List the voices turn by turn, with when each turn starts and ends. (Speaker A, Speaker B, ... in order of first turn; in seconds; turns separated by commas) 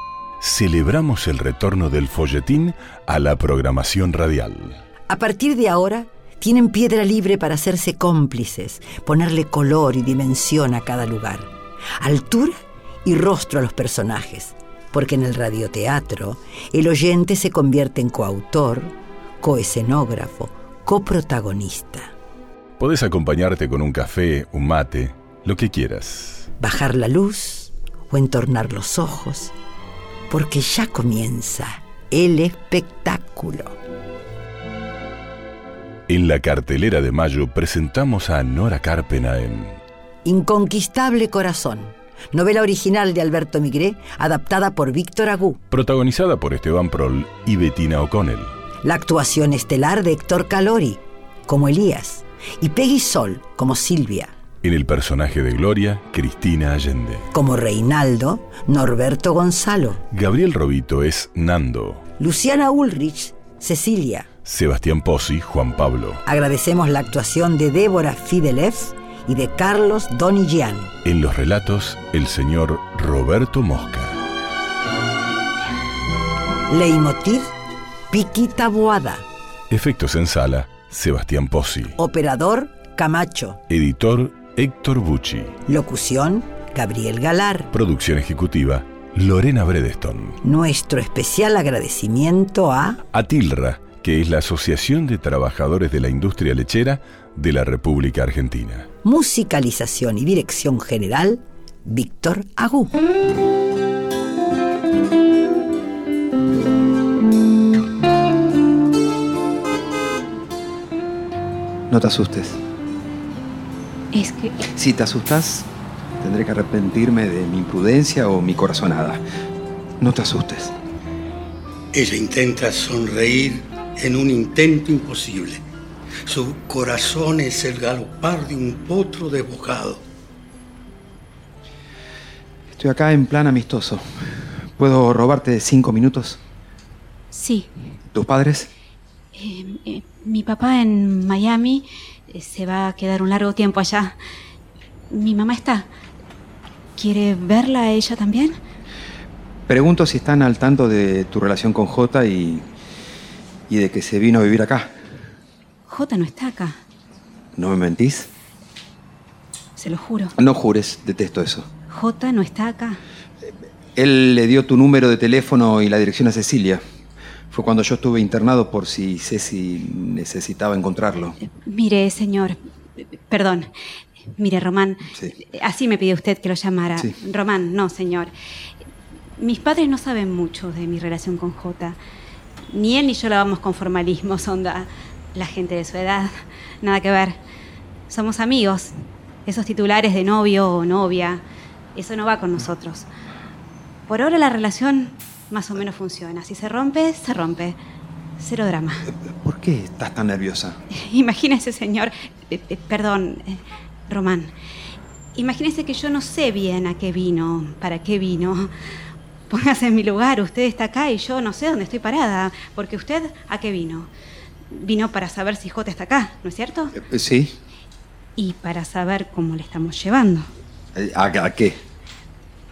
Speaker A: 0.4-4.8, Speaker B: 5.1-22.1, Speaker A: 22.8-26.5, Speaker B: 26.6-29.5, Speaker B: 30.3-33.8, Speaker A: 36.1-39.8, Speaker B: 40.2-45.6, Speaker A: 45.7-48.6, Speaker B: 48.8-54.4, Speaker A: 54.6-57.3, Speaker B: 57.3-60.0, Speaker A: 60.1-62.0, Speaker B: 62.2-64.3, Speaker A: 64.4-66.2, Speaker B: 66.2-70.9, Speaker A: 71.0-74.2, Speaker B: 76.7-77.5, Speaker B: 78.1-79.2, Speaker A: 79.7-82.0, Speaker B: 82.0-83.6, Speaker A: 83.7-85.5, Speaker B: 85.7-87.7, Speaker A: 87.7-90.4, Speaker B: 90.4-93.0, Speaker A: 93.1-98.9, Speaker B: 99.0-102.9, Speaker C: 111.9-112.6, Speaker D: 114.1-114.7, Speaker C: 114.7-115.7, Speaker C: 116.2-119.2, Speaker C: 120.0-120.7, Speaker E: 121.9-125.6, Speaker E: 126.2-130.0, Speaker C: 132.7-136.4, Speaker D: 137.3-137.7, Speaker C: 138.1-138.7, Speaker D: 139.3-144.2, Speaker D: 145.1-145.9, Speaker D: 146.9-148.6, Speaker C: 149.7-152.7, Speaker C: 153.7-155.0, Speaker D: 155.9-156.8, Speaker C: 157.5-158.3, Speaker D: 159.8-160.3, Speaker C: 160.4-161.7, Speaker D: 161.9-163.0, Speaker C: 163.4-166.8, Speaker C: 167.5-171.4, Speaker D: 171.4-173.7, Speaker D: 174.4-178.3, Speaker C: 175.1-175.4, Speaker D: 179.4-182.0, Speaker D: 182.7-187.4, Speaker D: 188.1-188.9, Speaker D: 189.4-191.4, Speaker D: 191.9-193.1, Speaker D: 194.1-197.8, Speaker D: 198.4-199.0, Speaker C: 199.1-200.8, Speaker D: 200.9-204.5, Speaker D: 205.3-208.7, Speaker D: 209.5-214.1, Speaker D: 214.7-216.9, Speaker C: 217.0-217.6, Speaker D: 218.4-220.5, Speaker C: 220.9-221.8